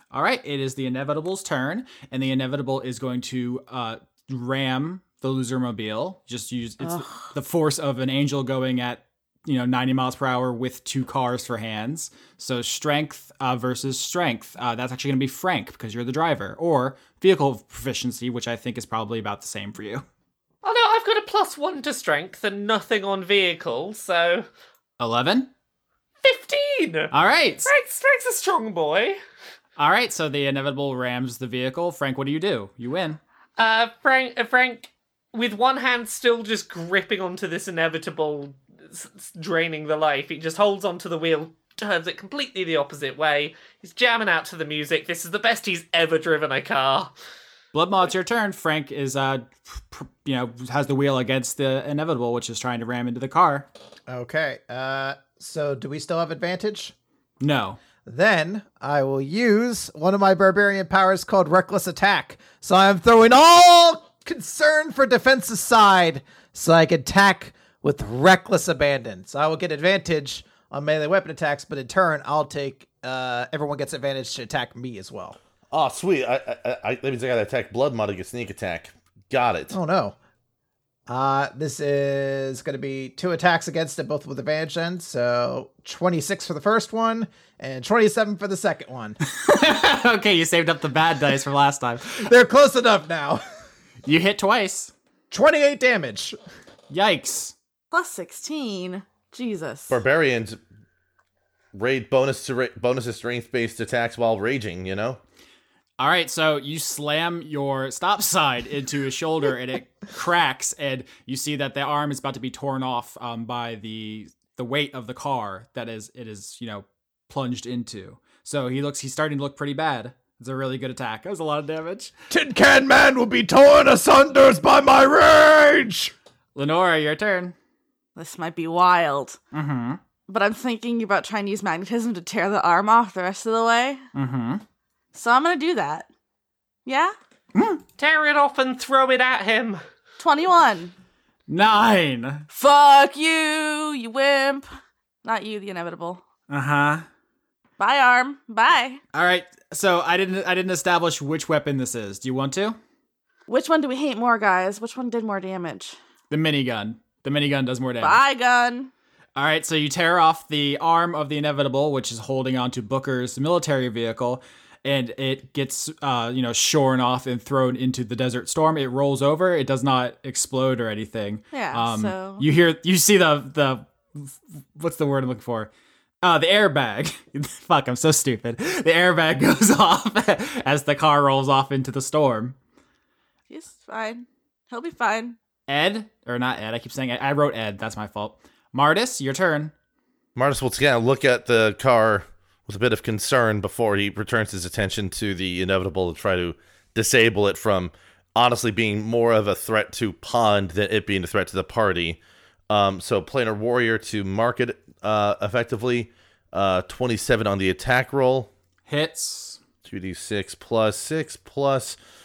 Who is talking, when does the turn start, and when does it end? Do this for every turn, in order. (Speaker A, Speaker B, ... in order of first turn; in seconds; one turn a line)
Speaker A: 0.1-20.0
Speaker B: 6.8-7.2
Speaker C: 20.6-24.4
Speaker A: 25.0-25.5
Speaker C: 26.2-27.1
Speaker A: 27.1-27.7
Speaker C: 27.6-29.2
Speaker A: 29.8-33.2
Speaker C: 33.6-47.1
Speaker A: 47.7-53.7
Speaker D: 54.1-56.9
Speaker A: 57.4-57.8
Speaker D: 58.0-75.4
Speaker E: 75.7-79.7
Speaker D: 79.7-80.2
Speaker D: 81.1-89.2
Speaker A: 89.2-92.3
Speaker D: 92.2-93.4
Speaker A: 94.0-94.9
Speaker D: 95.3-96.3
Speaker A: 96.9-97.5
Speaker B: 97.9-100.0
Speaker E: 99.9-100.6
Speaker E: 101.7-105.2
Speaker A: 106.0-122.1
Speaker D: 122.3-126.1
Speaker A: 126.5-127.5
Speaker B: 128.2-129.4
Speaker A: 129.5-130.0
Speaker B: 130.3-134.0
Speaker A: 134.1-134.6
Speaker B: 135.1-136.1
Speaker B: 136.8-137.1
Speaker A: 137.5-137.8
Speaker C: 138.0-139.8
Speaker B: 140.2-140.9
Speaker A: 141.5-142.4
Speaker B: 142.5-144.7
Speaker B: 145.2-146.2
Speaker A: 146.5-147.0
Speaker B: 147.8-149.0
Speaker A: 149.1-152.8
Speaker B: 153.5-156.0
Speaker A: 156.3-158.2
Speaker B: 158.0-158.9
Speaker A: 159.3-175.7
Speaker B: 171.5-172.4
Speaker A: 176.2-182.6
Speaker B: 183.5-185.4
Speaker A: 185.7-189.7
Speaker E: 190.3-202.2
Speaker E: 202.7-208.5
Speaker A: 208.9-209.6
Speaker E: 209.8-212.0